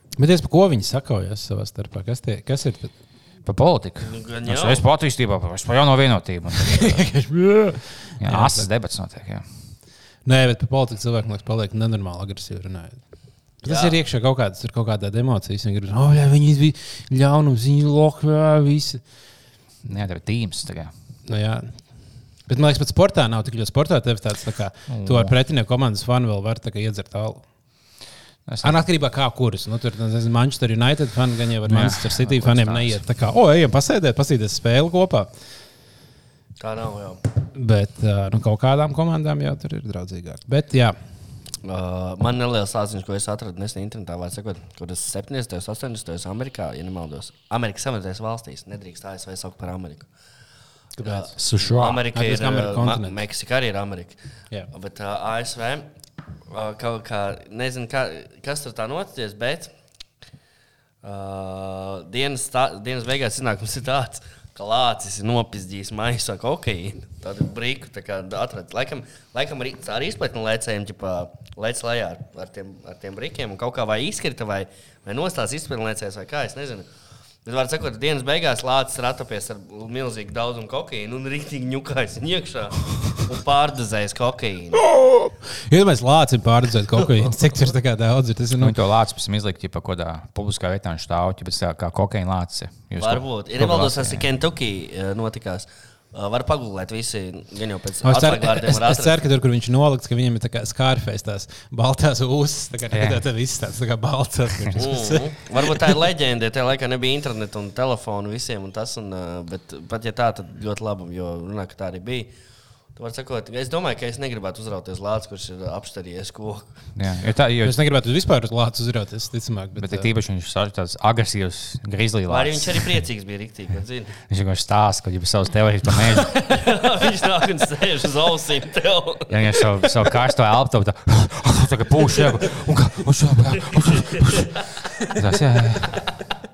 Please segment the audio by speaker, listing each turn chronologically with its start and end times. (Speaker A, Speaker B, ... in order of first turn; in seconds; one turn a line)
Speaker A: 0.2-2.9
Speaker B: 3.4-7.1
Speaker C: 4.0-4.8
Speaker A: 6.6-8.7
Speaker B: 8.2-9.4
Speaker A: 10.2-19.1
Speaker C: 13.6-14.0
Speaker B: 19.8-20.9
Speaker A: 21.2-28.0
Speaker B: 24.9-25.3
Speaker B: 28.4-28.8
Speaker A: 28.6-35.3
Speaker B: 31.6-33.0
Speaker C: 36.6-37.2
Speaker A: 37.5-41.0
Speaker C: 41.6-50.1
Speaker A: 51.0-51.3
Speaker C: 51.0-55.9
Speaker B: 51.4-52.0
Speaker A: 52.1-53.2
Speaker C: 56.5-59.7
Speaker C: 61.0-76.8
Speaker C: 77.4-84.8
Speaker A: 84.8-88.7
Speaker C: 87.2-87.5
Speaker B: 88.6-94.2
Speaker C: 93.0-99.2
Speaker A: 98.0-105.8
Speaker B: 102.9-103.2
Speaker C: 104.8-112.3
Speaker C: 112.9-116.9
Speaker B: 116.9-117.8
Speaker A: 117.6-120.1
Speaker B: 119.8-123.0
Speaker C: 122.3-124.2
Speaker B: 124.3-126.6
Speaker C: 126.4-129.9
Speaker B: 129.3-136.0
Speaker C: 133.8-134.7